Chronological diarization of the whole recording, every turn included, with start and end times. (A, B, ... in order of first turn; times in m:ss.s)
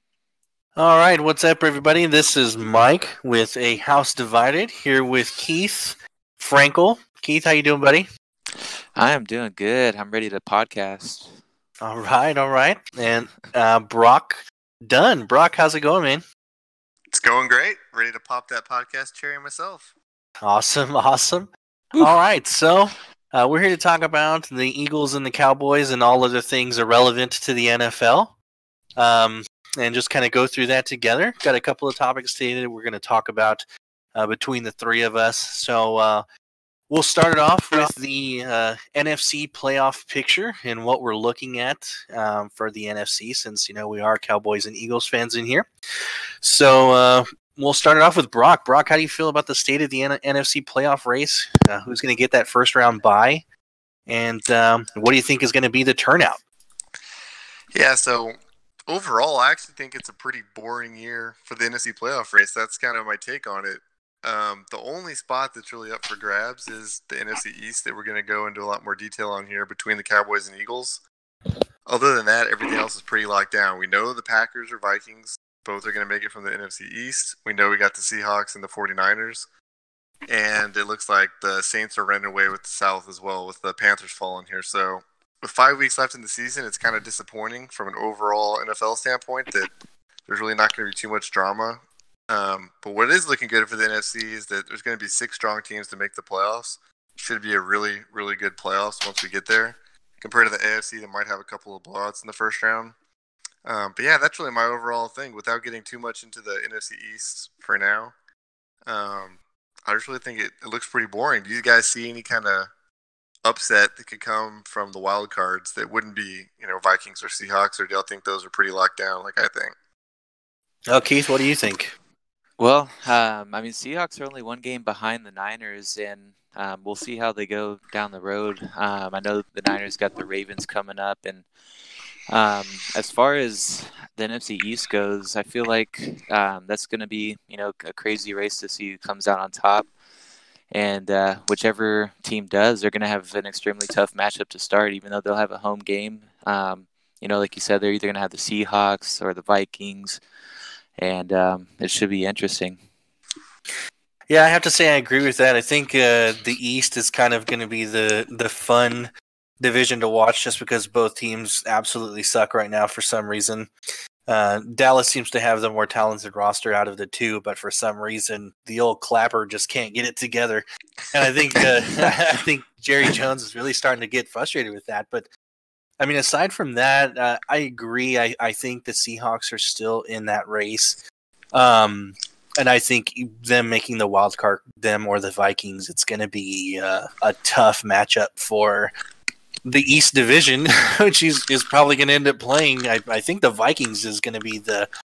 0:00.8-0:08.1 A
0:09.0-0:11.3 B
0:11.8-0:16.2 A
0:17.1-0:19.9 C
0:20.4-0:28.4 A
0:29.0-0:36.3 A
0:36.9-0:45.7 A
0:46.4-0:53.4 A
0:54.1-0:56.4 A
0:57.7-0:58.4 C
0:58.9-1:11.0 C
1:11.9-1:19.5 C
1:20.3-1:29.7 C
1:30.3-1:43.0 C
1:43.6-1:48.1 C
1:48.9-1:52.7 C
1:53.4-1:59.7 C
2:00.9-2:02.0 A
2:02.6-2:11.5 B
2:12.3-2:19.9 B
2:20.7-2:30.2 B
2:31.0-2:32.8 B
2:34.3-2:43.7 A
2:44.3-2:55.3 A
2:56.0-3:01.0 A
3:01.5-3:08.9 A
3:09.6-3:14.9 A